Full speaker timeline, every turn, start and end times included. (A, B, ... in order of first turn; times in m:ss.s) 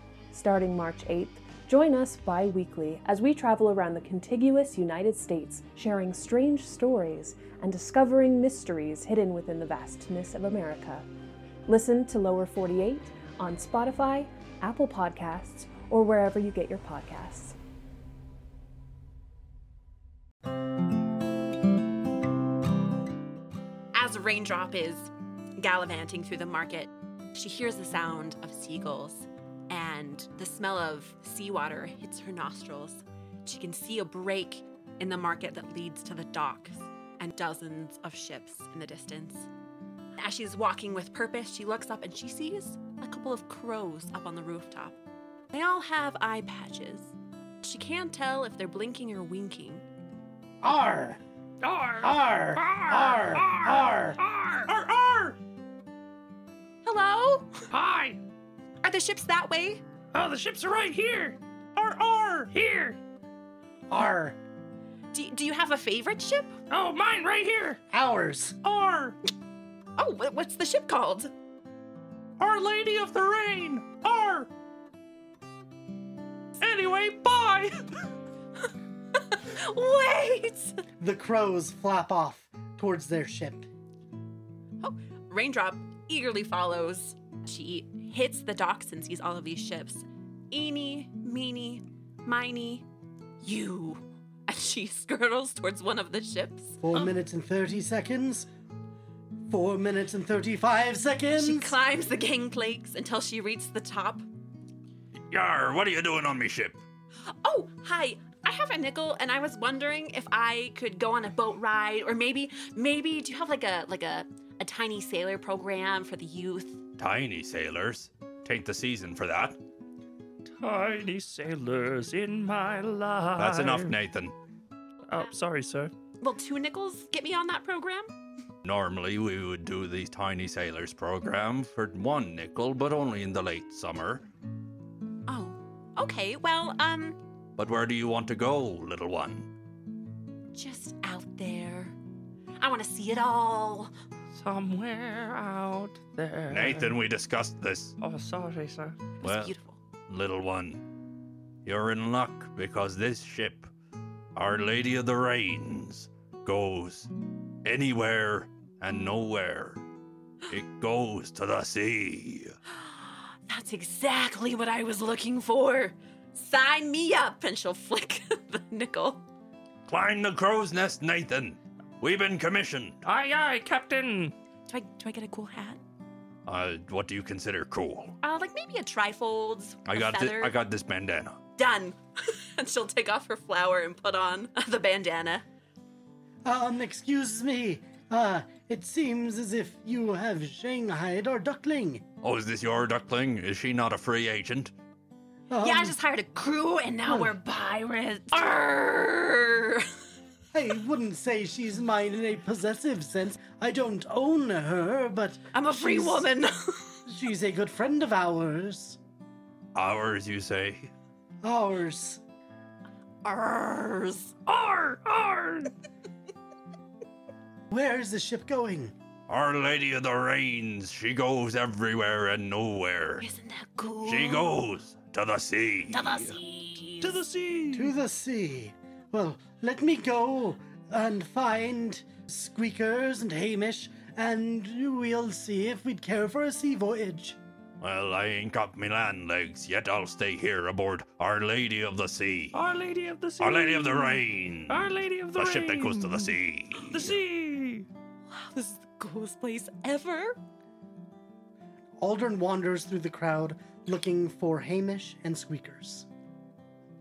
0:00.3-0:11.1 A
0:11.7-0:17.6 A
0:23.9-0:39.5 B
0:40.2-0:45.0 B
0:45.5-0:49.8 B
0:50.6-0:51.2 C
0:51.6-0:54.7 D
0:52.0-0:54.2 C
0:54.7-0:55.3 E
0:56.8-0:57.6 B
0:57.7-0:58.2 D
0:58.8-0:59.8 B
1:00.1-1:01.4 D
1:01.8-1:02.5 E
1:02.5-1:03.0 D
1:03.9-1:04.4 C
1:05.1-1:06.5 B
1:06.7-1:07.8 D
1:07.9-1:08.6 C
1:08.6-1:09.2 E
1:10.0-1:11.3 B
1:12.4-1:14.5 E
1:16.9-1:17.6 E
1:19.3-1:20.8 B
1:21.0-1:23.7 C
1:24.8-1:32.9 B
1:33.4-1:36.8 B
1:36.8-1:38.5 C
1:39.5-1:41.8 C
1:41.4-1:44.2 B
1:45.3-1:46.8 E
1:47.4-1:56.8 B
1:57.0-1:59.6 E
2:00.6-2:03.9 D
2:03.4-2:04.4 E
2:05.1-2:05.9 D
2:06.2-2:08.1 B
2:08.6-2:14.2 E
2:15.3-2:17.2 B
2:17.6-2:19.5 E
2:20.5-2:22.0 B
2:22.6-2:23.9 B
2:24.4-2:26.9 D
2:26.5-2:28.0 E
2:28.0-2:29.0 D
2:29.2-2:29.8 B
2:29.2-2:29.5 E
2:30.1-2:30.8 E
2:31.6-2:33.7 E
2:34.4-2:37.1 E
2:37.6-2:39.8 E
2:40.5-2:42.6 E
2:42.8-2:49.2 B
2:49.9-2:53.0 E
2:53.1-2:54.3 D
2:54.7-2:55.8 B
2:56.5-2:58.2 E
2:58.2-3:00.6 B
2:59.9-3:01.4 E
3:01.6-3:05.4 B
3:06.4-3:12.0 C
3:12.2-3:14.7 E
3:15.5-3:16.0 C
3:15.6-3:19.9 B
3:17.1-3:17.3 C
3:20.5-3:26.3 C
3:25.5-3:27.0 B
3:27.1-3:29.0 C
3:29.8-3:30.9 E
3:31.4-3:32.2 C
3:33.2-3:34.4 B
3:34.5-3:35.7 D
3:37.7-3:38.9 C
3:39.3-3:43.3 E
3:43.2-3:44.6 B
3:44.0-3:46.4 E
3:45.9-3:47.2 B
3:47.0-3:47.9 D
3:47.7-3:57.4 C
3:57.8-4:02.6 E
4:02.5-4:04.1 D
4:03.4-4:07.2 E
4:04.7-4:06.2 D
4:06.9-4:07.8 D
4:08.3-4:10.4 B
4:12.0-4:16.1 C